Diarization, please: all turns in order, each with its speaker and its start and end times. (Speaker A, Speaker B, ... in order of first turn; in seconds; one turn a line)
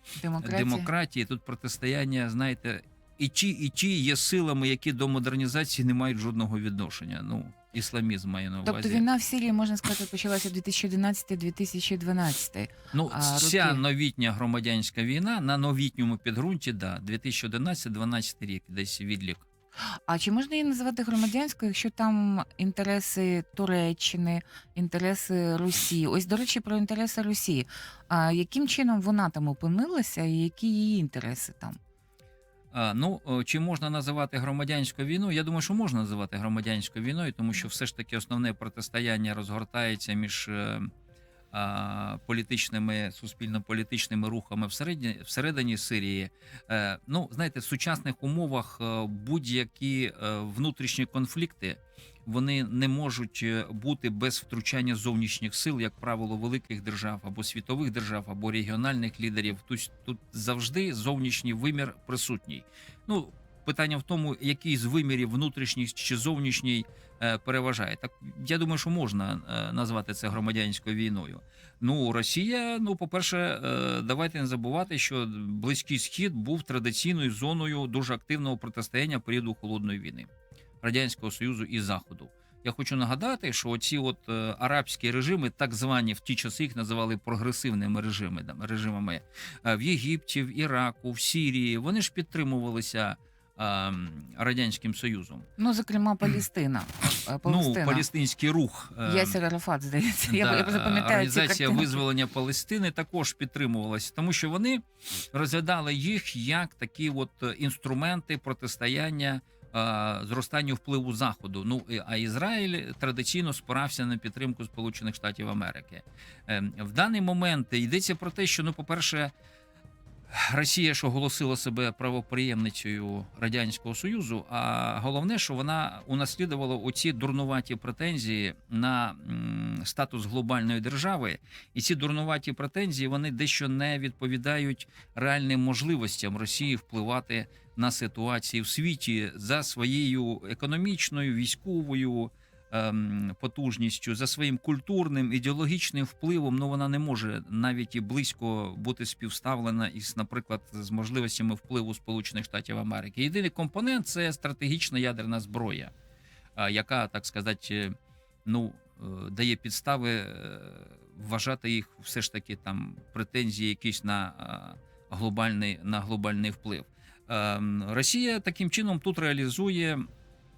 Speaker A: 0.2-0.9
Speaker B: 0.4-9.0
Speaker A: 8.7-13.8
Speaker B: 12.9-19.4
Speaker A: 20.1-31.8
Speaker B: 32.7-40.9
Speaker B: 41.5-80.3
Speaker B: 80.8-95.5
Speaker A: 95.6-98.0
Speaker B: 97.5-99.3
Speaker A: 99.0-102.0
Speaker B: 100.3-119.3
Speaker B: 120.3-155.9
Speaker B: 156.6-157.9
Speaker B: 158.5-170.1